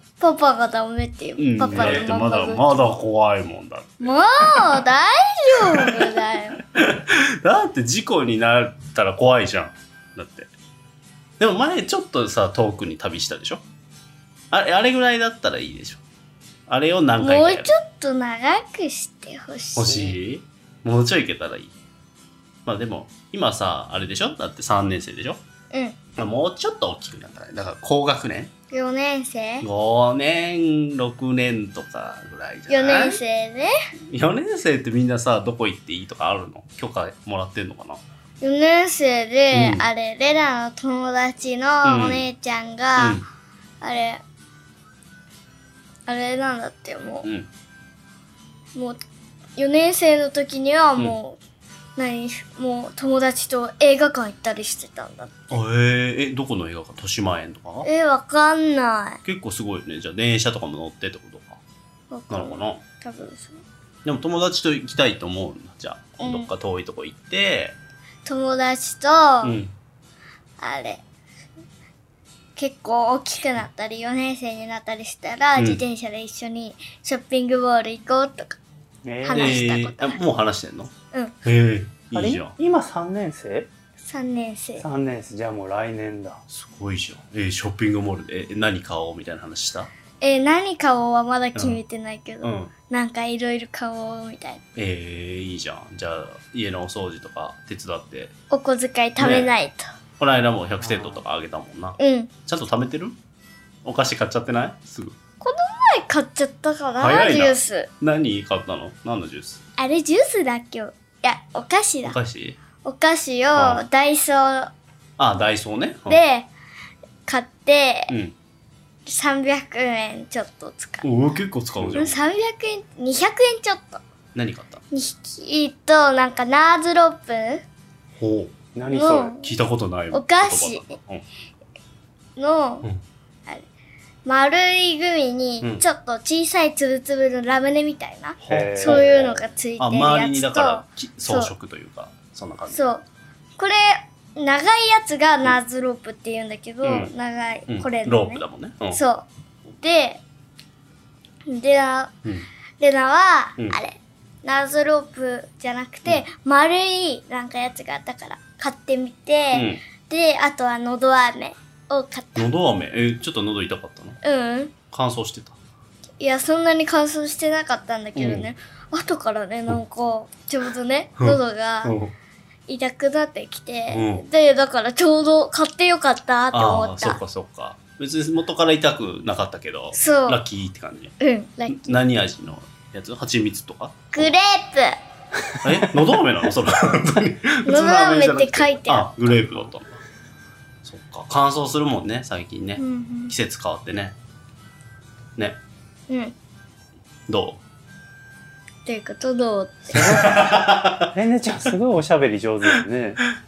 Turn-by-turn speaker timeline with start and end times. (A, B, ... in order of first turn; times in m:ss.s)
0:00.2-0:03.0 A
0:01.4-0:04.8 B
0:01.7-0:02.1 C
0:04.0-0:06.6 A
0:05.5-0:10.5 B
0:11.4-0:13.6 B
0:14.5-0:16.0 B
0:16.7-0:17.7 B
0:17.2-0:20.2 A
0:19.8-0:21.7 B
0:22.6-0:25.4 B
0:25.7-0:26.0 A
0:26.2-0:28.5 B
0:28.7-0:29.7 A
0:29.6-0:33.2 B
0:32.7-0:33.7 A
0:34.0-0:38.0 B
0:38.4-0:43.2 A
0:39.5-0:39.9 B
0:41.8-0:42.3 B
0:43.0-0:43.2 B
0:43.8-0:44.2 A
0:46.1-0:47.3 A
0:47.2-0:47.5 B
0:48.7-0:49.0 A
0:49.6-0:51.4 A
0:52.0-0:55.4 A
0:55.5-0:57.9 B
0:57.8-0:59.2 A
0:59.2-1:01.6 B
1:02.1-1:03.6 A
1:02.3-1:02.8 B
1:04.0-1:07.8 B
1:06.2-1:06.5 A
1:08.2-1:09.6 A
1:09.4-1:09.7 B
1:10.6-1:11.0 A
1:12.6-1:18.6 A
1:15.6-1:15.8 B
1:19.0-1:19.6 C
1:19.2-1:20.2 A
1:19.3-1:22.5 B
1:22.1-1:23.7 C
1:24.0-1:24.8 A
1:24.8-1:26.4 C
1:26.5-1:29.9 B
1:30.2-1:34.6 A
1:32.4-1:32.7 B
1:34.7-1:38.3 B
1:38.5-1:39.9 A
1:39.2-1:39.5 B
1:40.2-1:43.2 B
1:40.8-1:41.2 C
1:42.0-1:42.3 A
1:43.8-1:45.2 B
1:45.4-1:47.9 A
1:47.0-1:49.6 B
1:49.8-1:52.2 A
1:52.0-1:52.6 B
1:52.8-1:54.7 A
1:53.5-1:53.8 B
1:55.2-1:56.2 B
1:56.1-1:56.5 A
1:57.2-1:58.1 A
1:58.1-1:58.4 B
1:59.0-2:01.1 A
2:01.0-2:02.2 B
2:01.8-2:04.0 A
2:04.3-2:04.8 B
2:04.9-2:07.6 A
2:08.2-2:08.6 B
2:08.7-2:09.3 C
2:08.9-2:09.6 A
2:09.3-2:11.2 B
2:10.1-2:11.0 A
2:12.4-2:12.9 A
2:14.2-2:21.5 A
2:15.6-2:15.8 B
2:18.4-2:22.8 B
2:18.5-2:19.0 C
2:22.7-2:23.0 A
2:23.6-2:30.2 A
2:26.8-2:27.1 B
2:27.7-2:29.0 B
2:31.4-2:32.1 A
2:32.8-2:42.5 A
2:39.5-2:39.8 B
2:42.4-2:44.2 B
2:44.2-2:44.7 A
2:44.9-2:45.6 B
2:46.2-2:52.0 A
2:48.2-2:48.5 B
2:51.2-2:52.1 B
2:52.7-2:57.2 A
2:53.9-2:54.2 B
2:56.5-3:01.1 B
2:59.9-3:00.4 A
3:01.2-3:01.9 A
3:01.7-3:04.3 B
3:04.1-3:05.0 A
3:05.6-3:10.0 B
3:07.6-3:09.1 A
3:10.8-3:14.2 B
3:12.8-3:13.3 A
3:16.1-3:16.3 A
3:17.3-3:17.6 B
3:18.8-3:20.2 A
3:19.9-3:23.2 C
3:19.9-3:21.1 B